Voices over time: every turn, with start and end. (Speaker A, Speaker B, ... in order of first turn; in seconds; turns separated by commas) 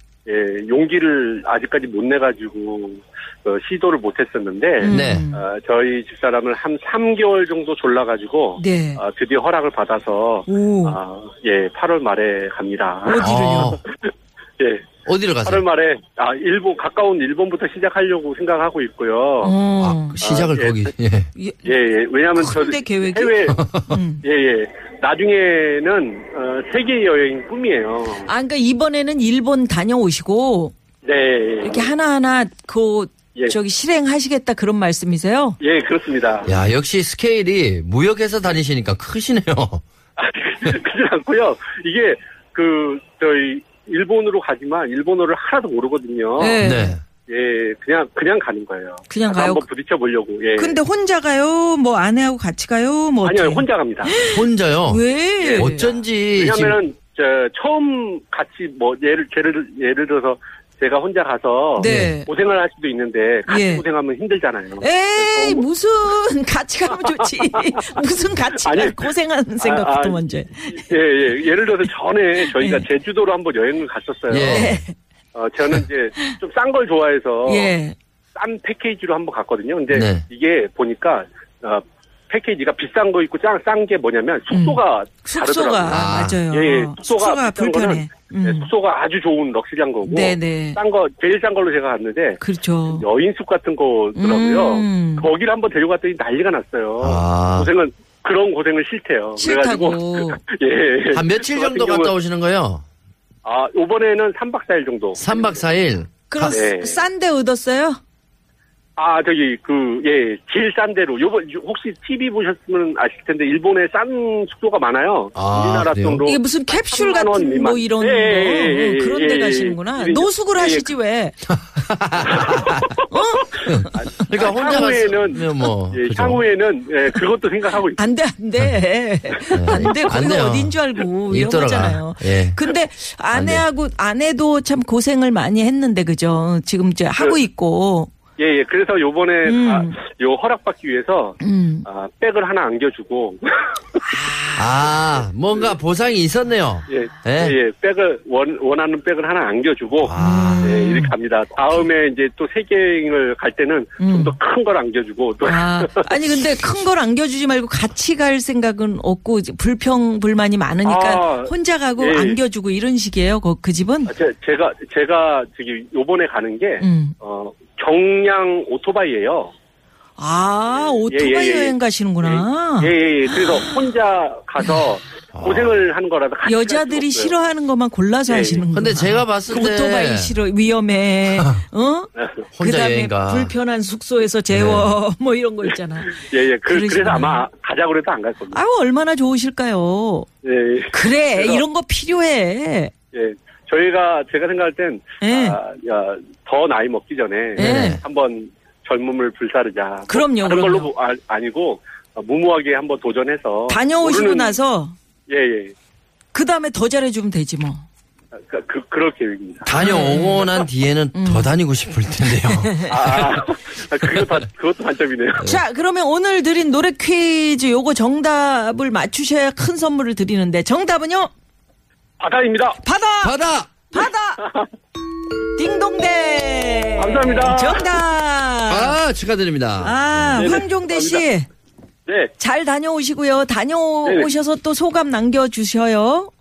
Speaker A: 0.3-13.2, Speaker B: 4.8-5.4, Speaker C: 4.8-5.3, Speaker B: 8.6-9.0, Speaker B: 10.5-11.0, Speaker B: 13.1-13.8, Speaker C: 13.2-13.8, Speaker A: 14.6-14.9, Speaker C: 15.1-15.6, Speaker A: 15.4-19.6, Speaker B: 19.4-20.2, Speaker C: 19.8-21.3, Speaker A: 20.2-20.9, Speaker B: 21.4-21.7, Speaker A: 21.6-23.7, Speaker B: 22.4-24.2, Speaker C: 23.6-24.0, Speaker A: 24.2-28.3, Speaker B: 28.2-30.7, Speaker A: 31.0-31.9, Speaker B: 31.6-35.6, Speaker A: 35.6-36.5, Speaker C: 36.5-39.8, Speaker A: 40.2-46.6, Speaker B: 46.4-47.0, Speaker C: 46.6-47.0, Speaker A: 47.3-50.8, Speaker B: 49.1-49.7, Speaker B: 50.6-55.9, Speaker A: 53.2-54.2, Speaker C: 54.2-55.0, Speaker A: 55.4-65.6, Speaker C: 55.5-56.8, Speaker B: 61.8-62.3, Speaker C: 61.8-62.2, Speaker B: 63.5-63.8, Speaker B: 64.8-70.9, Speaker A: 66.9-67.6, Speaker A: 68.6-74.8, Speaker B: 72.4-72.8, Speaker C: 74.3-74.8, Speaker B: 74.5-75.0, Speaker A: 75.3-77.8, Speaker B: 77.5-78.0, Speaker A: 78.3-102.1, Speaker C: 79.9-80.2, Speaker B: 84.5-88.7, Speaker C: 85.9-86.4, Speaker B: 90.0-90.8, Speaker B: 92.4-93.1, Speaker B: 94.2-95.3, Speaker C: 97.0-97.7, Speaker B: 99.4-100.4, Speaker C: 101.1-102.8, Speaker A: 103.5-105.6, Speaker C: 105.2-106.6, Speaker B: 106.3-108.0, Speaker A: 106.5-107.0, Speaker A: 109.0-120.9, Speaker C: 115.3-116.2, Speaker B: 116.2-121.4, Speaker C: 121.7-122.8, Speaker A: 122.3-123.0, Speaker B: 123.1-123.9, Speaker C: 123.7-126.4, Speaker A: 123.9-128.0, Speaker B: 124.5-124.9, Speaker B: 128.0-138.1, Speaker C: 129.5-130.8, Speaker C: 131.3-132.6, Speaker C: 133.3-133.6, Speaker A: 138.4-144.0, Speaker B: 139.4-139.9, Speaker B: 141.4-141.9, Speaker B: 144.1-144.9, Speaker C: 144.6-147.6, Speaker A: 146.9-156.1, Speaker C: 150.0-150.7, Speaker B: 150.2-151.2, Speaker B: 154.0-154.3, Speaker B: 155.4-164.1, Speaker A: 160.8-162.4, Speaker A: 164.1-169.5, Speaker B: 166.8-167.2, Speaker B: 170.2-172.9, Speaker A: 170.7-177.3, Speaker C: 175.3-175.9, Speaker B: 176.4-187.4, Speaker A: 178.3-178.6, Speaker C: 178.7-180.4, Speaker C: 182.6-183.5, Speaker C: 184.5-184.9, Speaker A: 186.1-188.6, Speaker B: 188.5-190.3, Speaker A: 190.4-191.6, Speaker B: 190.9-192.9, Speaker A: 193.1-204.6, Speaker B: 195.2-195.6, Speaker B: 197.6-198.0, Speaker C: 197.6-198.0, Speaker B: 200.1-200.9, Speaker B: 203.7-204.9, Speaker A: 205.3-205.7, Speaker B: 206.3-207.8, Speaker A: 208.5-210.2, Speaker C: 209.7-212.7, Speaker B: 209.8-210.5, Speaker B: 211.1-211.5, Speaker B: 212.5-213.1, Speaker A: 212.9-215.5, Speaker B: 215.4-221.3, Speaker A: 222.2-222.8, Speaker B: 222.8-223.4, Speaker C: 223.2-223.7, Speaker B: 223.9-224.4, Speaker A: 224.4-224.7, Speaker B: 225.6-229.0, Speaker A: 227.0-227.9, Speaker C: 228.7-230.6, Speaker B: 229.8-231.5, Speaker A: 230.3-231.3, Speaker A: 232.1-232.3, Speaker B: 232.4-236.3